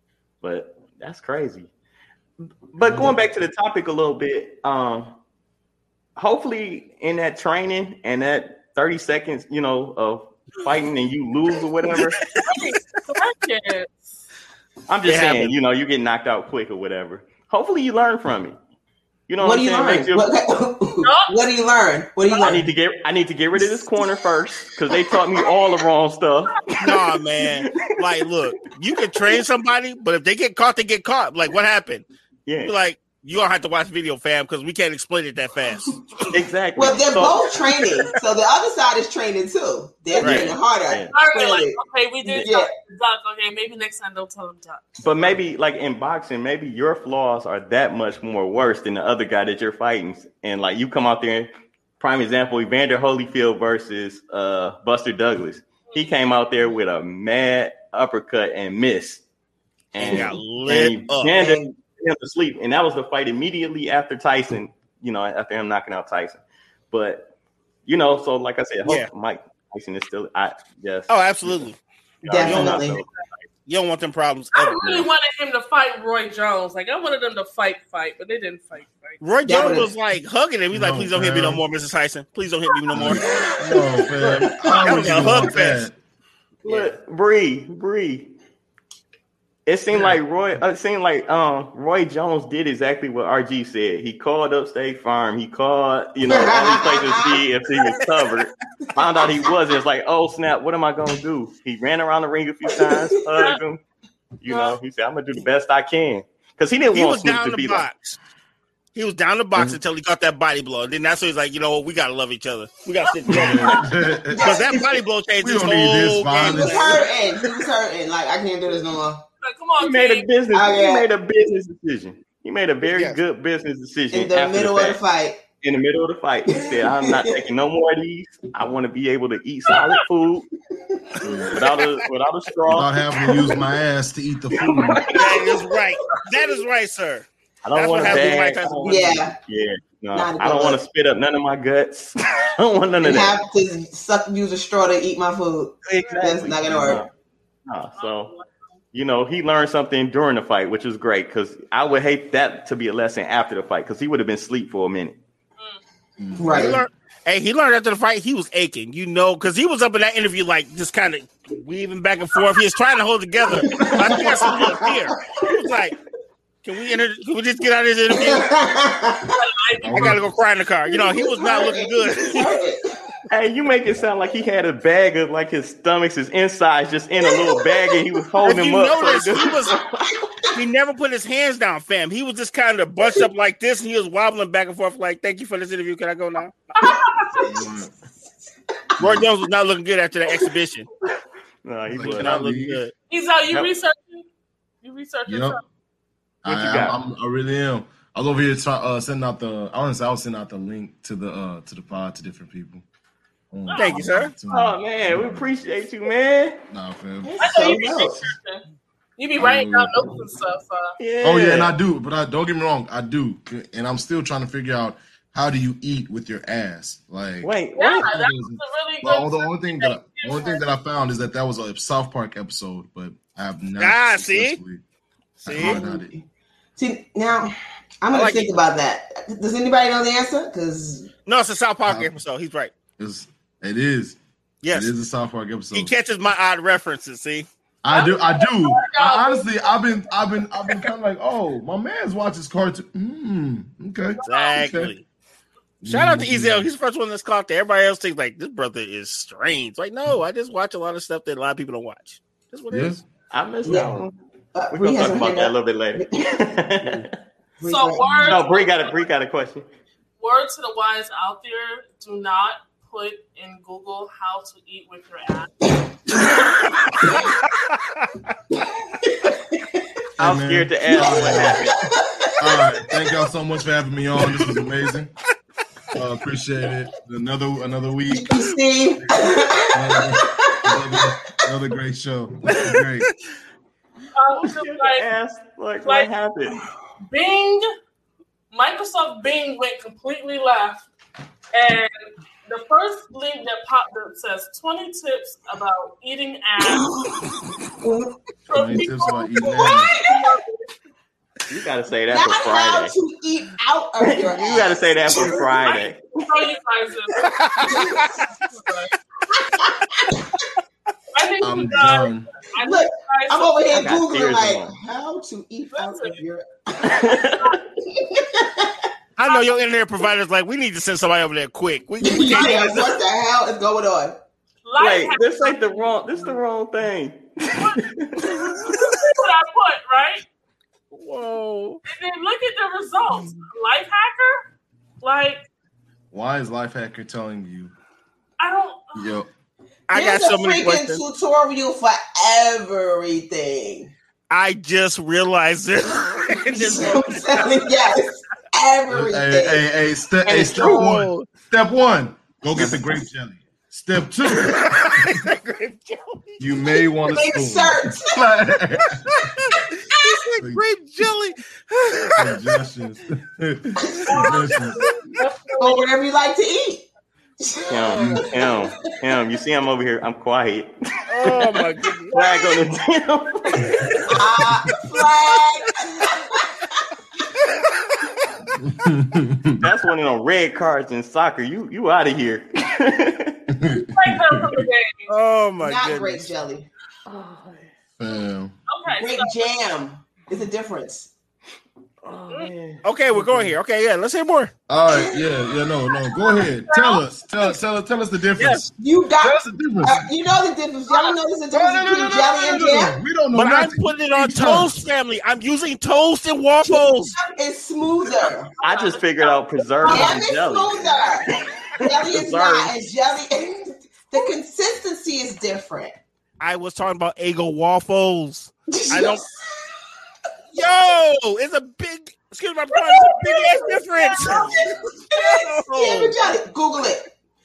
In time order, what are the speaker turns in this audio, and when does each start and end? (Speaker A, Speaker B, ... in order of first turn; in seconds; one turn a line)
Speaker A: 0.4-1.7
Speaker A: 2.7-5.2
Speaker A: 6.2-12.3
Speaker B: 11.9-12.4
Speaker C: 12.4-14.2
Speaker A: 14.9-18.6
Speaker B: 15.0-15.6
Speaker A: 19.3-20.3
Speaker D: 19.4-22.7
Speaker C: 21.0-21.3
Speaker A: 22.4-26.9
Speaker B: 26.8-32.0
Speaker A: 27.6-27.9
Speaker A: 32.5-32.7
Speaker B: 32.6-36.4
Speaker A: 36.3-38.0
Speaker D: 36.7-41.8
Speaker A: 40.2-41.1
Speaker B: 40.2-40.5
Speaker C: 41.1-45.0
Speaker D: 42.4-42.7
Speaker A: 45.0-59.2
Speaker C: 55.9-56.1
Speaker A: 59.9-67.3
Speaker D: 60.0-60.3
Speaker B: 60.0-61.4
Speaker D: 61.3-61.6
Speaker A: 67.8-71.7
Speaker B: 71.1-71.8
Speaker A: 72.2-73.5
Speaker D: 72.3-73.0
Speaker B: 72.4-72.8
Speaker B: 73.7-75.1
Speaker C: 74.5-79.2
Speaker B: 79.2-83.2
Speaker D: 79.4-79.9
Speaker E: 80.7-81.6
Speaker E: 82.9-86.0
Speaker D: 83.1-84.5
Speaker B: 84.7-85.9
Speaker D: 86.6-86.9
Speaker A: 86.6-88.3
Speaker A: 89.7-103.8
Speaker D: 96.2-97.4
Speaker D: 102.7-103.2
Speaker A: 104.4-107.8
Speaker C: 104.5-104.8
Speaker B: 106.9-108.2
Speaker B: 108.9-113.8
Speaker C: 113.2-113.8
Speaker A: 113.3-113.8
Speaker E: 113.4-114.4
Speaker D: 114.3-115.0
Speaker B: 114.4-117.1
Speaker E: 115.4-117.0
Speaker D: 116.4-119.2
Speaker C: 119.4-120.3
Speaker A: 119.8-125.0
Speaker D: 120.5-121.1
Speaker B: 122.8-123.2
Speaker D: 124.1-125.4
Speaker A: 125.6-130.5
Speaker D: 126.5-127.4
Speaker C: 129.7-130.0
Speaker E: 131.2-131.6
Speaker A: 131.5-133.6
Speaker E: 132.7-135.1
Speaker A: 134.5-135.4
Speaker B: 135.1-138.9
Speaker A: 137.6-143.4
Speaker D: 138.8-139.4
Speaker D: 140.1-140.8
Speaker D: 143.0-147.0
Speaker A: 145.8-147.1
Speaker C: 146.0-146.3
Speaker E: 146.5-146.9
Speaker A: 147.7-148.3
Speaker C: 148.0-148.5
Speaker A: 148.9-155.2
Speaker E: 156.2-156.8
Speaker D: 156.4-156.8
Speaker B: 156.5-165.9
Speaker D: 163.5-165.1
Speaker B: 166.6-168.4
Speaker D: 168.1-169.4
Speaker C: 169.3-170.2
Speaker E: 169.8-170.2
Speaker B: 169.9-172.6
Speaker D: 170.9-172.9
Speaker A: 173.3-180.1
Speaker D: 177.2-178.0
Speaker B: 178.4-179.8
Speaker B: 180.5-186.5
Speaker C: 186.8-187.7
Speaker E: 187.4-187.9
Speaker B: 189.0-190.9
Speaker A: 191.6-192.5
Speaker E: 191.9-192.8
Speaker B: 192.0-192.9
Speaker C: 193.1-194.3
Speaker C: 194.8-195.6
Speaker E: 195.3-195.6
Speaker E: 196.4-202.8
Speaker A: 196.4-197.0
Speaker E: 203.5-205.5
Speaker C: 203.7-204.1
Speaker B: 203.7-204.3
Speaker A: 204.5-206.6
Speaker E: 206.7-207.5
Speaker D: 207.2-208.3
Speaker C: 207.4-208.6
Speaker C: 209.2-210.9
Speaker E: 209.3-210.3
Speaker A: 211.0-211.7
Speaker E: 211.2-224.8
Speaker A: 217.4-218.1
Speaker C: 217.8-220.6
Speaker B: 223.8-224.6
Speaker E: 225.4-226.1
Speaker B: 225.4-225.8
Speaker D: 225.6-226.2
Speaker D: 226.8-231.1
Speaker B: 228.1-228.5
Speaker B: 231.3-232.7
Speaker E: 231.8-232.2
Speaker E: 233.0-234.2
Speaker B: 234.6-234.9
Speaker E: 234.7-235.9
Speaker B: 235.7-237.5
Speaker E: 237.8-244.9
Speaker C: 237.9-240.1
Speaker C: 244.2-244.7
Speaker B: 244.2-245.0
Speaker E: 245.8-246.7
Speaker B: 245.8-252.9
Speaker E: 252.7-253.0
Speaker A: 253.3-254.1
Speaker D: 253.6-254.0
Speaker D: 254.5-256.2
Speaker A: 254.7-257.1
Speaker D: 257.6-258.2
Speaker C: 257.6-259.0
Speaker E: 258.0-258.3
Speaker A: 258.3-259.6
Speaker C: 260.2-265.5
Speaker D: 267.0-267.3
Speaker B: 267.6-268.1
Speaker D: 269.1-269.4
Speaker E: 270.2-271.6
Speaker A: 270.2-271.8
Speaker D: 270.9-273.1
Speaker E: 272.4-275.1
Speaker E: 275.9-278.4
Speaker D: 278.1-281.5
Speaker E: 279.7-283.1
Speaker B: 282.5-282.8
Speaker C: 284.1-285.1
Speaker A: 284.4-286.6
Speaker C: 287.1-287.6
Speaker C: 288.5-290.9
Speaker C: 291.5-296.9
Speaker D: 296.6-298.2
Speaker E: 298.5-299.9
Speaker C: 298.5-300.5
Speaker D: 299.4-300.4
Speaker A: 301.5-302.9
Speaker D: 302.1-305.6
Speaker A: 304.0-306.1
Speaker C: 305.6-308.9
Speaker B: 307.2-308.1
Speaker D: 307.6-308.1
Speaker D: 309.4-310.2
Speaker C: 311.1-313.7
Speaker E: 311.4-312.3
Speaker D: 312.6-317.1
Speaker A: 313.7-314.7
Speaker C: 315.7-316.2
Speaker A: 316.8-317.6
Speaker D: 318.1-318.7
Speaker B: 319.2-322.7
Speaker C: 319.2-319.6
Speaker D: 322.0-324.2
Speaker C: 322.4-322.8
Speaker C: 324.6-325.8
Speaker A: 324.8-328.4
Speaker C: 327.5-327.9
Speaker C: 328.5-330.2
Speaker B: 330.9-331.8
Speaker C: 331.9-334.4
Speaker C: 335.0-335.4
Speaker E: 336.1-337.7
Speaker C: 338.4-339.1
Speaker E: 338.9-339.3
Speaker B: 339.9-341.0
Speaker D: 339.9-343.9
Speaker B: 344.3-347.6
Speaker D: 346.5-349.7
Speaker E: 348.9-355.2
Speaker D: 350.3-350.9
Speaker B: 350.4-351.3
Speaker B: 354.2-356.5
Speaker E: 356.4-359.1
Speaker D: 357.0-358.2
Speaker B: 359.1-362.4
Speaker E: 362.1-364.8
Speaker D: 363.9-364.2
Speaker C: 364.1-365.9
Speaker D: 365.6-366.9
Speaker D: 367.4-368.9
Speaker A: 367.7-373.9
Speaker B: 367.9-368.2
Speaker B: 371.1-372.3
Speaker D: 374.1-376.4
Speaker E: 378.6-379.6
Speaker A: 379.6-383.4
Speaker E: 383.5-384.6
Speaker C: 383.9-385.1
Speaker B: 385.1-386.3
Speaker D: 385.6-386.7
Speaker A: 387.1-387.7
Speaker E: 388.0-388.5
Speaker C: 388.7-389.5
Speaker D: 388.9-391.1
Speaker A: 392.0-393.5
Speaker B: 392.8-394.5
Speaker E: 394.7-400.1
Speaker D: 394.9-396.4
Speaker C: 396.3-397.1
Speaker B: 398.4-398.7
Speaker D: 398.8-403.0
Speaker C: 400.9-401.2
Speaker E: 401.5-404.7
Speaker B: 403.3-407.1
Speaker D: 406.6-408.5
Speaker C: 408.6-410.2
Speaker A: 408.6-411.0
Speaker D: 409.8-415.9
Speaker A: 411.8-412.7
Speaker B: 416.4-419.2
Speaker D: 418.7-419.7
Speaker B: 420.5-424.6
Speaker C: 422.7-424.5
Speaker D: 424.2-427.1
Speaker B: 425.1-426.2